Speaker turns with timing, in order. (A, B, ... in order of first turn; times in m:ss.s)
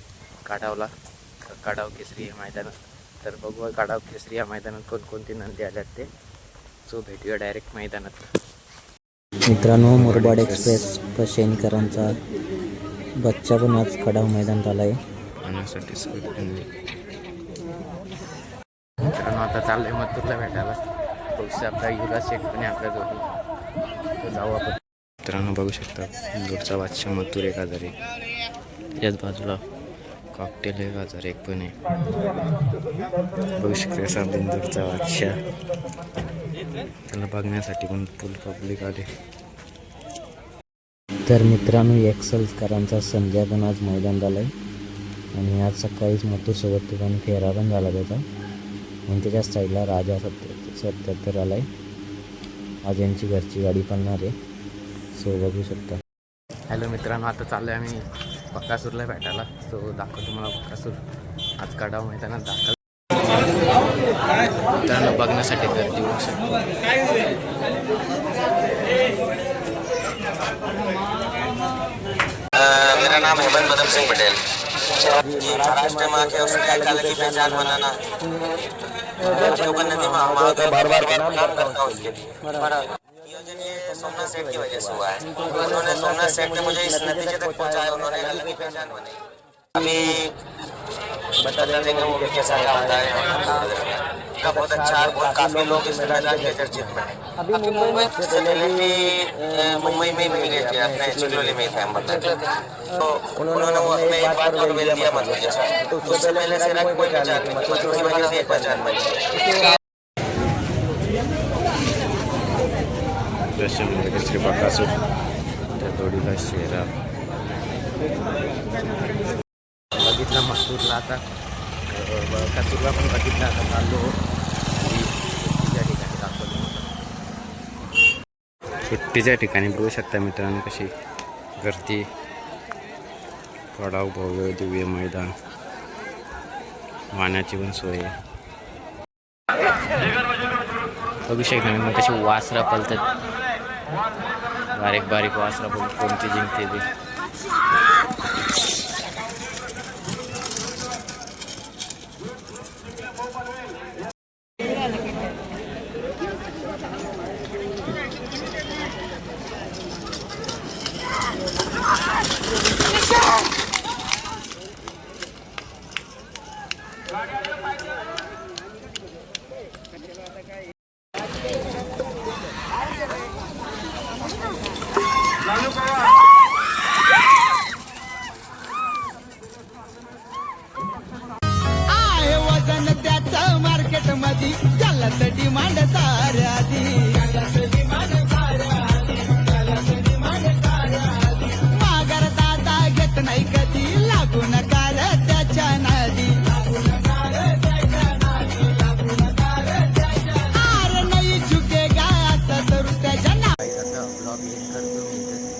0:00.5-0:00.9 A
0:01.5-0:06.1 A
0:06.9-0:08.3 A
0:09.5-0:12.1 B
0:09.8-0:10.8 A
0:13.2-0:15.0 B
0:15.4-0:16.7 A
0:19.1-0:20.8 A
0:21.3-0:23.3 A
0:24.2-0:27.9 A
0:29.0-0:29.6 A
0:30.3-0:31.8 A
0:33.6-0:35.3 A
0:37.1-0:39.1 A
0:41.3-0:44.5 B
0:45.3-0:48.2 B
0:49.1-0:51.7 B
0:52.8-0:54.3 B
0:55.2-0:56.0 B
0:56.7-1:01.0 A
1:01.6-1:02.8 A
1:04.8-1:06.5 A
1:12.6-1:14.4 C
1:15.3-1:15.5 B
1:15.4-1:18.0 C
1:19.3-1:19.8 B
1:19.4-1:29.2 C
1:29.8-1:30.3 C
1:31.5-1:37.1 C
1:37.8-1:42.4 C
1:43.0-1:49.0 C
1:53.6-1:54.9 A
1:55.7-1:56.9 A
1:59.9-2:01.2 A
2:01.9-2:04.1 A
2:04.7-2:06.9 A
2:08.9-2:10.9 A
2:11.6-2:12.1 A
2:13.7-2:15.3 A
2:17.1-2:18.1 A
2:21.3-2:23.0 A
2:24.7-2:26.8 A
3:01.9-3:07.7 D
3:11.6-3:16.4 D
3:20.5-3:23.5 D
3:23.6-3:25.5 A